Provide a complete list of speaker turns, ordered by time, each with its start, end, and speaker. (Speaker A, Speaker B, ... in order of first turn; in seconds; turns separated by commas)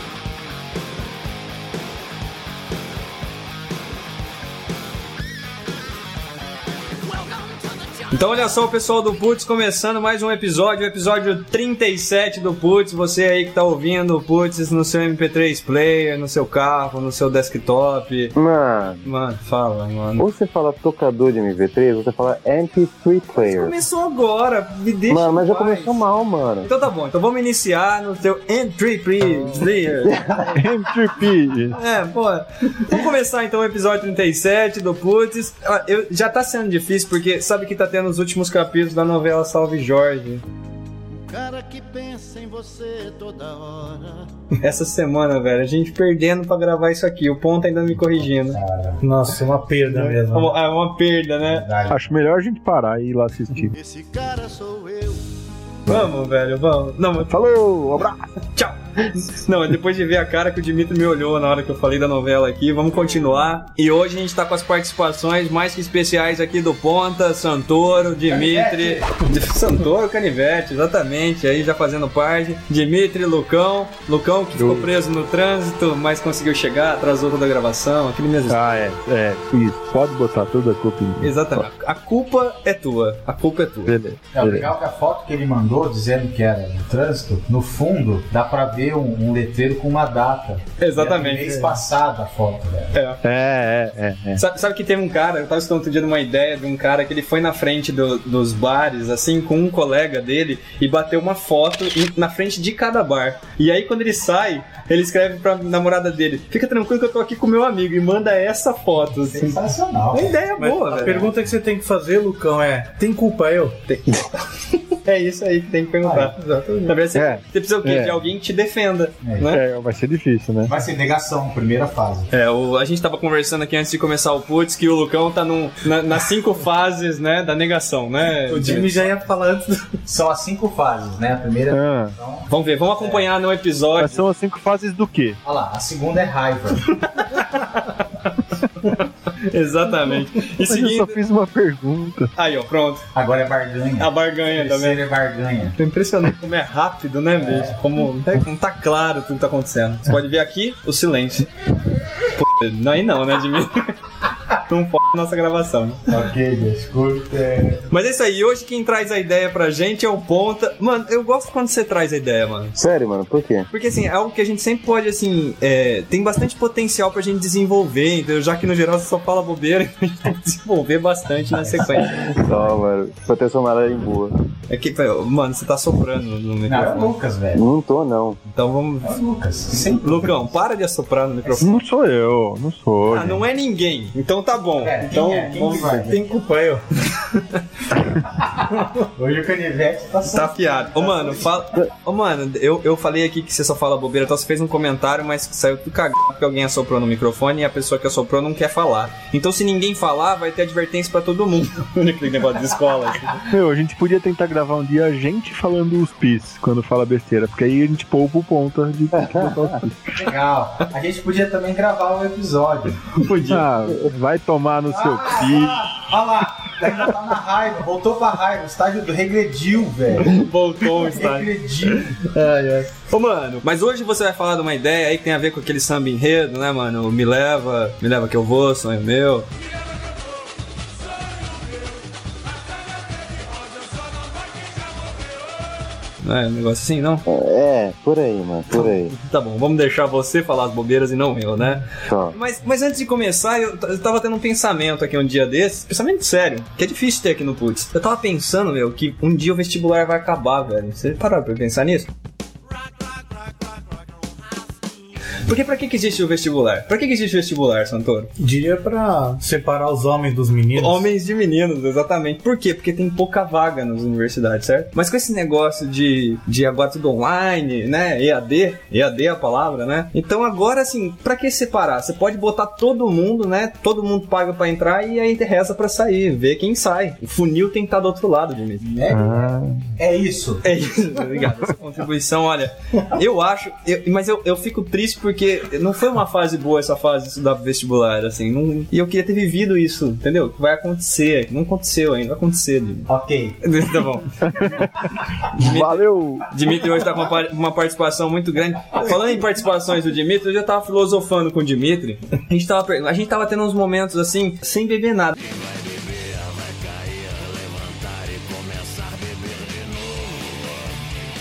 Speaker A: 7.1-8.4, Speaker B: 8.1-18.4, Speaker C: 18.4-19.0, Speaker B: 19.0-20.2, Speaker C: 20.2-23.8, Speaker B: 23.4-26.0, Speaker C: 25.1-26.7, Speaker B: 26.6-30.2, Speaker C: 30.0-30.8, Speaker D: 30.5-31.8, Speaker B: 31.7-40.4, Speaker A: 41.2-44.3, Speaker B: 44.6-48.6, Speaker E: 48.5-50.5, Speaker F: 49.0-50.3, Speaker D: 49.9-50.2, Speaker B: 50.3-51.7, Speaker E: 51.5-52.0, Speaker D: 51.9-53.7, Speaker A: 53.7-55.3, Speaker B: 55.9-57.3, Speaker D: 57.3-58.2, Speaker B: 58.5-78.9, Speaker E: 68.3-69.1, Speaker D: 74.5-74.9, Speaker D: 78.5-81.7, Speaker B: 81.2-84.0, Speaker D: 83.8-84.7, Speaker E: 84.3-92.9, Speaker B: 90.8-91.7, Speaker B: 92.9-93.2, Speaker D: 93.2-94.4, Speaker B: 94.3-109.6, Speaker E: 109.2-111.7, Speaker B: 110.1-111.3, Speaker F: 110.6-113.8, Speaker B: 113.9-116.3, Speaker E: 116.0-116.9, Speaker F: 116.5-116.8, Speaker B: 116.8-119.6, Speaker D: 117.1-118.2, Speaker E: 119.2-119.5, Speaker D: 119.5-120.7, Speaker E: 120.7-122.3, Speaker B: 122.3-129.2, Speaker E: 128.5-133.2, Speaker F: 128.5-129.7, Speaker D: 131.7-132.1, Speaker B: 132.5-134.2, Speaker D: 134.0-135.4, Speaker E: 135.4-136.9, Speaker B: 136.9-138.1, Speaker B: 138.8-141.2, Speaker D: 140.4-142.3, Speaker B: 142.4-143.1, Speaker E: 143.1-145.8, Speaker B: 144.0-145.0, Speaker B: 145.8-151.5, Speaker E: 147.4-147.8, Speaker B: 152.2-154.0, Speaker B: 154.5-156.0, Speaker E: 156.1-157.8, Speaker B: 157.9-162.8, Speaker C: 162.8-163.7, Speaker B: 163.7-172.4, Speaker E: 171.6-172.7, Speaker C: 172.4-174.3, Speaker B: 174.7-177.1, Speaker E: 176.7-177.7, Speaker C: 177.5-178.4, Speaker B: 178.5-179.1, Speaker E: 179.0-180.5, Speaker B: 180.0-181.8, Speaker D: 181.6-183.4, Speaker B: 183.1-186.2, Speaker E: 184.8-186.8, Speaker F: 185.5-186.8, Speaker E: 188.6-191.5, Speaker B: 190.3-203.5, Speaker D: 203.5-210.2, Speaker C: 209.1-209.8, Speaker E: 210.2-213.0, Speaker B: 213.2-213.7, Speaker D: 213.5-216.1, Speaker E: 214.9-220.4, Speaker B: 220.2-229.5, Speaker E: 221.0-222.3, Speaker A: 229.8-230.4, Speaker A: 231.1-232.0, Speaker A: 232.7-235.2, Speaker B: 236.2-237.2, Speaker C: 237.2-239.1, Speaker B: 238.7-252.1, Speaker C: 242.0-242.4, Speaker A: 252.8-254.3, Speaker B: 255.4-258.3, Speaker E: 258.4-260.8, Speaker F: 260.3-260.9, Speaker B: 260.8-278.8, Speaker E: 278.8-280.6, Speaker D: 279.1-279.8, Speaker B: 280.6-293.1, Speaker E: 293.1-293.6, Speaker B: 293.6-294.8, Speaker D: 294.4-294.9, Speaker B: 295.4-305.4, Speaker D: 295.6-296.5, Speaker A: 305.4-310.9